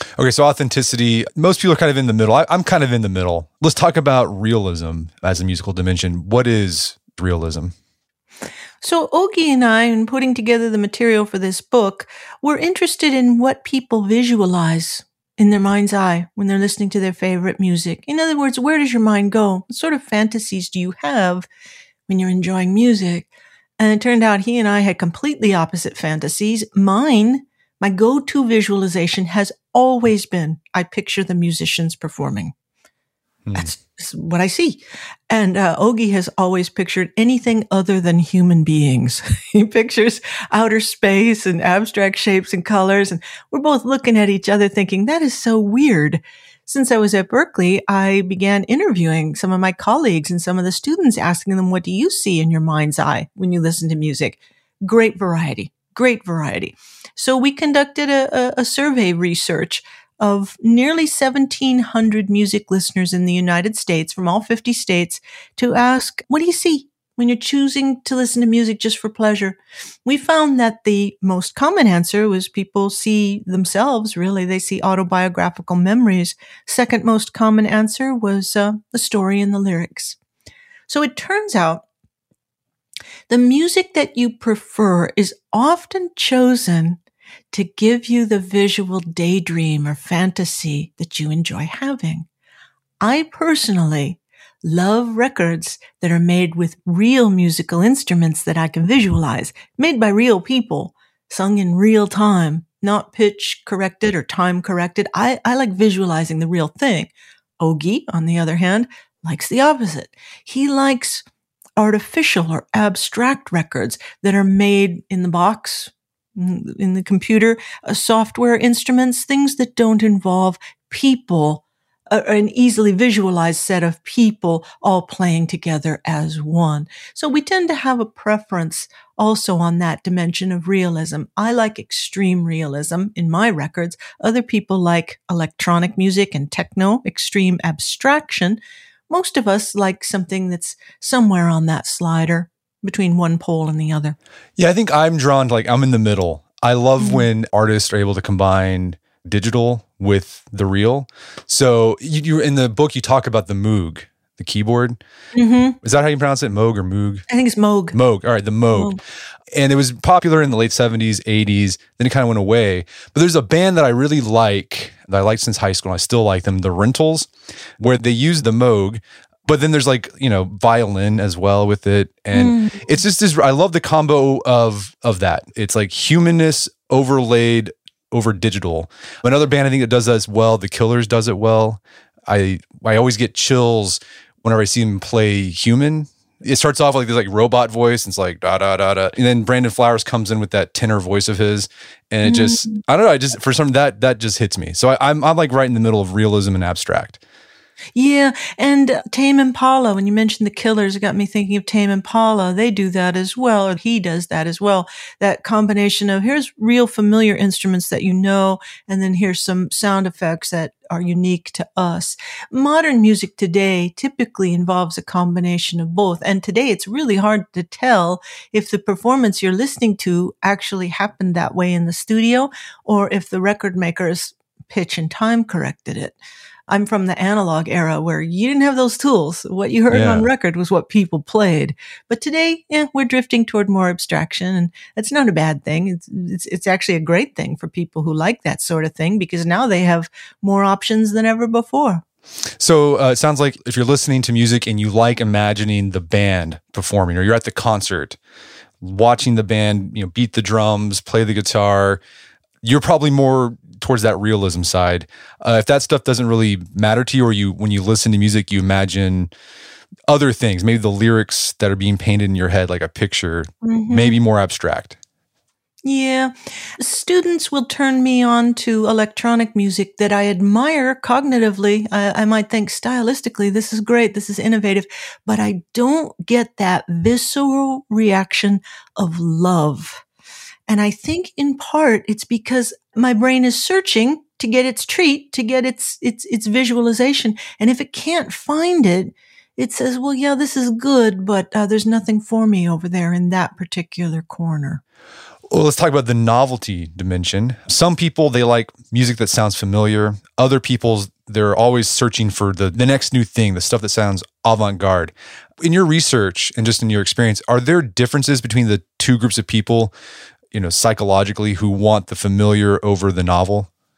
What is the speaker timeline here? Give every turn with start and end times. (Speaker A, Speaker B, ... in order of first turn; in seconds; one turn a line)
Speaker A: 0.2-7.7
Speaker B: 8.8-21.5
Speaker B: 22.1-32.5
Speaker A: 33.5-33.7
Speaker B: 33.5-80.2
Speaker B: 80.9-81.8
Speaker B: 83.3-87.0
Speaker B: 87.5-92.3
Speaker B: 93.0-111.2
Speaker B: 111.8-144.2
Speaker A: 144.6-155.0
Speaker B: 147.0-147.2
Speaker B: 155.3-155.8
Speaker A: 155.8-157.2
Speaker B: 157.3-157.9
Speaker A: 157.9-159.0
Speaker B: 158.7-159.0
Speaker A: 159.5-197.2
Speaker B: 172.3-173.0
Speaker B: 192.2-192.8
Speaker B: 197.9-226.2
Speaker B: 226.7-242.0
Speaker A: 229.9-230.3
Speaker A: 242.6-248.2
Speaker A: 248.8-252.0
Speaker A: 252.6-259.3
Speaker A: 260.1-265.0
Speaker B: 263.6-264.2
Speaker B: 265.8-280.0
Speaker B: 280.7-294.8
Speaker A: 295.5-309.9
Speaker A: 310.5-313.7